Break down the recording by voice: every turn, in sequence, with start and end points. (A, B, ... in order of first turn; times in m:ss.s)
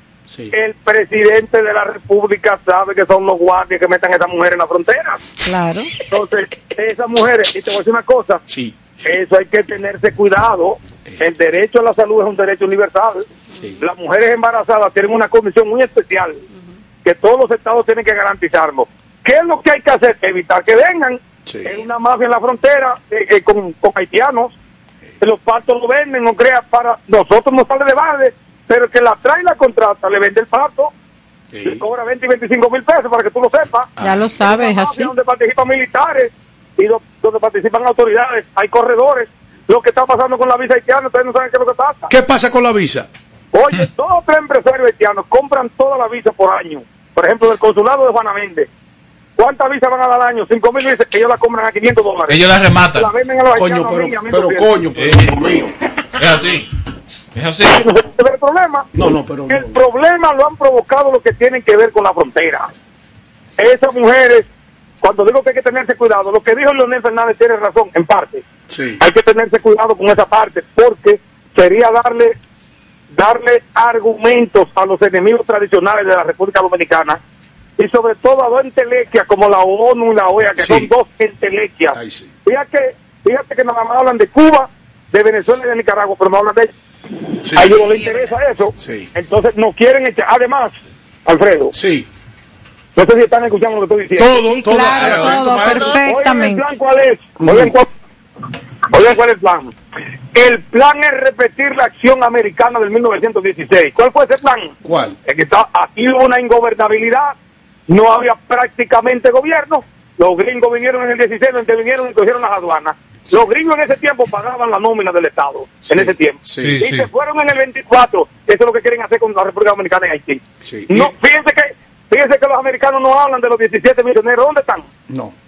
0:00.3-0:00.6 A
0:00.5-0:05.2 B
0:05.4-0:05.9 C
0:06.1-0:08.4 B
0:08.5-0:08.8 A
0:09.0-0:13.3 B
0:13.5-0:13.8 A
0:13.8-0:16.4 B
0:17.0-0:24.5 B
0:21.5-0:21.8 A
0:25.2-0:30.9 B
0:31.5-0:31.8 A
0:31.6-0:42.1 B
0:34.0-0:35.1 C
0:42.1-0:43.1 A
0:43.5-0:48.7 B
0:49.4-0:54.7 B
0:52.3-0:53.1 D
0:53.6-0:55.7 A
0:55.0-0:55.2 D
0:56.2-0:56.7 D
0:57.4-0:57.8 D
0:57.7-1:02.7 B
0:59.0-0:59.8 A
1:03.6-1:04.5 B
1:05.0-1:08.4 B
1:08.7-1:09.0 A
1:09.0-1:12.4 B
1:13.1-1:17.2 B
1:17.8-1:26.7 B
1:20.6-1:20.9 A
1:21.9-1:22.3 A
1:27.4-1:28.1 A
1:27.5-1:31.7 B
1:28.8-1:29.1 A
1:31.7-1:32.1 A
1:33.0-1:34.4 B
1:34.2-1:36.0 A
1:34.5-1:36.6 C
1:35.2-1:37.9 B
1:37.4-1:37.8 A
1:38.9-1:39.7 B
1:40.3-1:44.7 B
1:44.8-1:45.2 A
1:45.3-1:47.4 B
1:47.9-2:04.9 B
1:55.9-1:56.8 A
1:56.6-1:57.1 D
2:00.6-2:01.1 A
2:05.1-2:05.4 A